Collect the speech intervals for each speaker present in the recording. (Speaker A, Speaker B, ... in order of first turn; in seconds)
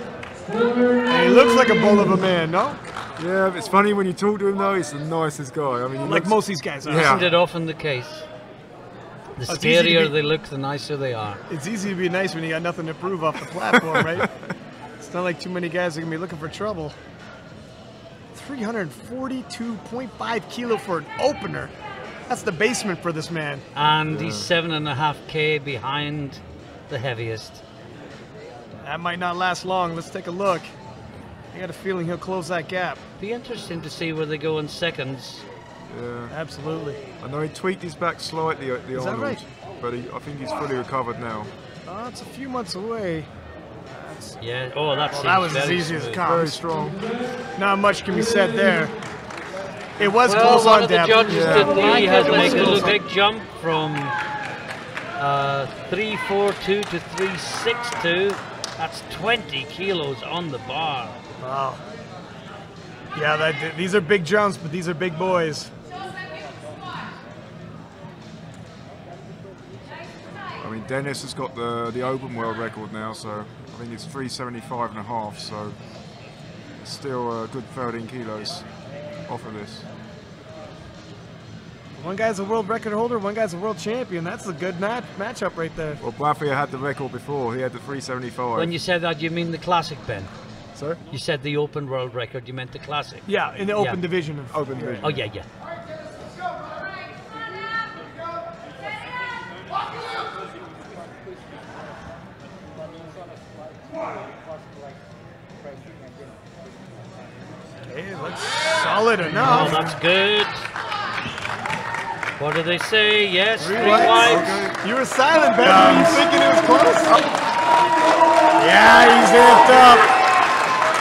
Speaker A: 1.1-2.8, 6.0-7.2, 9.5-10.1, 11.5-14.3, 15.0-16.9, 18.3-21.7, 22.3-23.6, 28.8-30.7, 31.5-33.0, 36.3-37.0, 38.9-39.4, 41.9-43.3, 44.0-44.4, 45.1-46.9, 47.5-48.9, 50.0-53.0, 61.4-61.8, 63.1-65.7, 82.0-86.0, 93.2-95.0, 107.9-110.0, 113.6-117.3, 118.5-120.1
Speaker B: 3.2-7.3, 13.8-14.3, 24.1-24.5, 35.9-36.3, 37.2-41.5, 46.2-47.0, 51.3-51.9, 70.6-75.8, 76.8-78.7, 79.3-79.9, 86.0-88.7, 94.5-95.2, 114.0-114.8, 115.6-116.2
Speaker C: 7.0-8.2, 9.3-11.4, 23.7-27.6, 33.2-35.4, 44.4-46.2, 50.2-54.1, 55.2-61.2, 88.5-90.3, 91.1-94.0, 95.0-95.5, 109.2-110.7, 112.4-114.7